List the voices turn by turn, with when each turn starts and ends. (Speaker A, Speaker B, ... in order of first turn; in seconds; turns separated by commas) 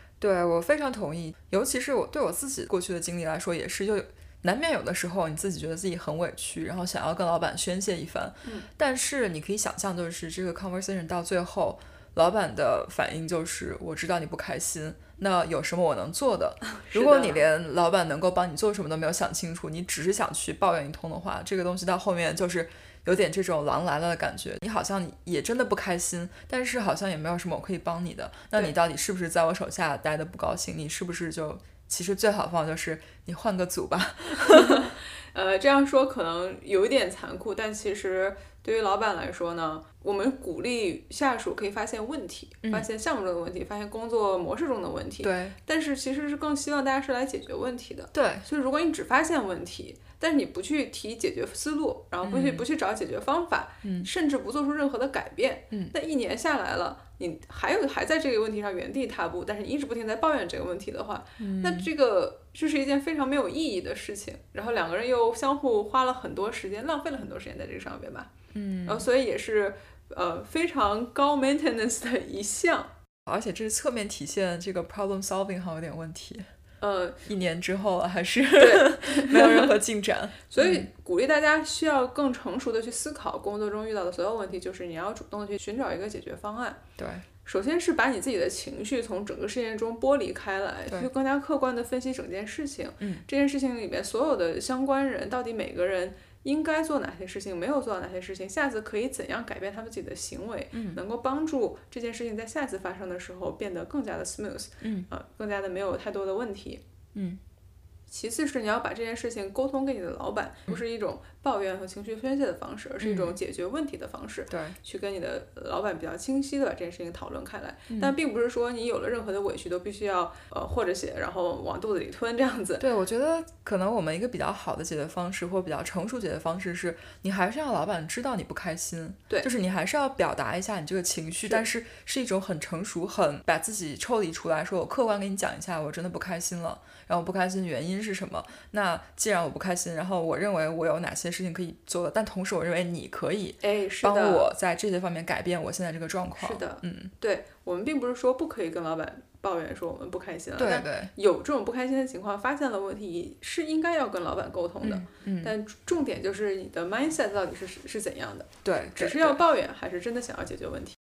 Speaker A: 0.2-34.9, Speaker B: 16.8-17.4, Speaker B: 34.5-68.3, Speaker A: 45.2-45.5, Speaker A: 48.1-48.5, Speaker A: 52.2-52.6, Speaker A: 53.8-54.1, Speaker A: 61.4-61.9, Speaker A: 68.5-69.1, Speaker B: 68.9-72.9, Speaker A: 73.3-76.5, Speaker B: 76.8-77.2, Speaker A: 77.2-80.9, Speaker B: 78.6-79.7, Speaker B: 80.5-86.8, Speaker A: 87.0-87.2, Speaker B: 87.5-106.8, Speaker A: 100.7-101.0, Speaker A: 104.8-105.1, Speaker B: 108.1-122.8, Speaker A: 113.0-113.4, Speaker A: 114.5-114.8, Speaker A: 117.9-118.2, Speaker A: 122.8-147.1, Speaker B: 143.6-144.5, Speaker B: 146.4-161.0, Speaker A: 150.6-151.1, Speaker A: 154.8-155.5, Speaker A: 158.6-159.4